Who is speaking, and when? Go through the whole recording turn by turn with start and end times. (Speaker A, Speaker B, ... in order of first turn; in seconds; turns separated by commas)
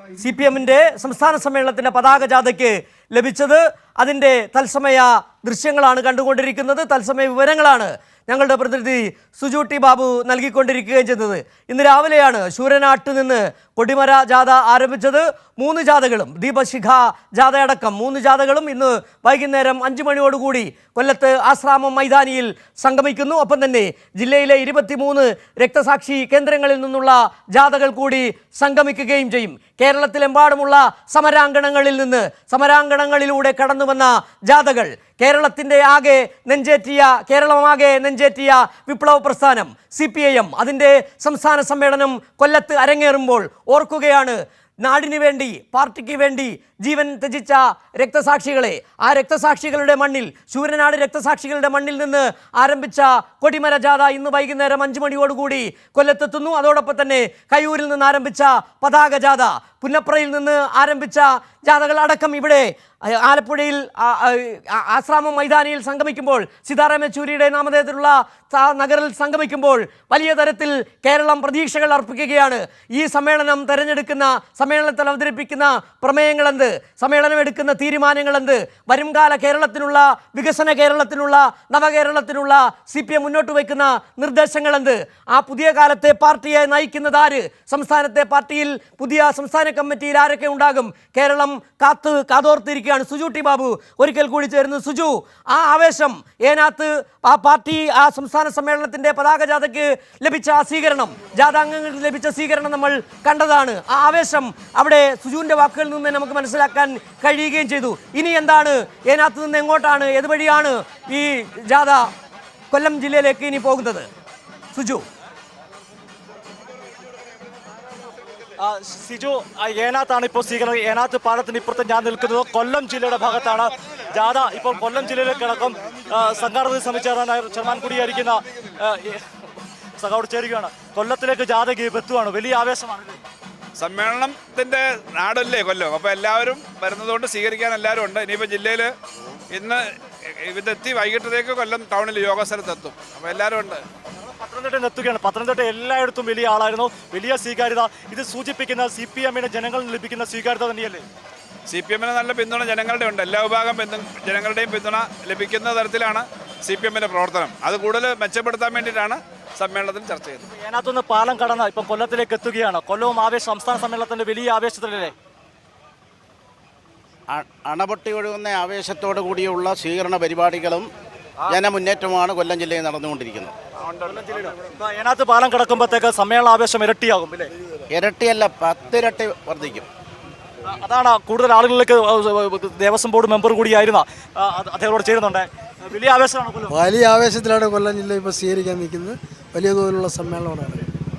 Speaker A: 0.2-112.1, Speaker A: 112.7-114.1, Speaker A: 114.7-115.1, Speaker B: 118.6-129.2, Speaker B: 130.0-133.2, Speaker C: 133.8-138.9, Speaker C: 139.5-139.8, Speaker C: 140.4-143.8, Speaker B: 144.2-151.1, Speaker C: 151.7-160.5, Speaker B: 160.5-165.1, Speaker D: 167.3-170.9, Speaker D: 171.5-173.6, Speaker C: 173.8-174.3, Speaker B: 174.1-177.5, Speaker D: 177.9-179.9, Speaker B: 180.7-186.8, Speaker E: 186.8-190.9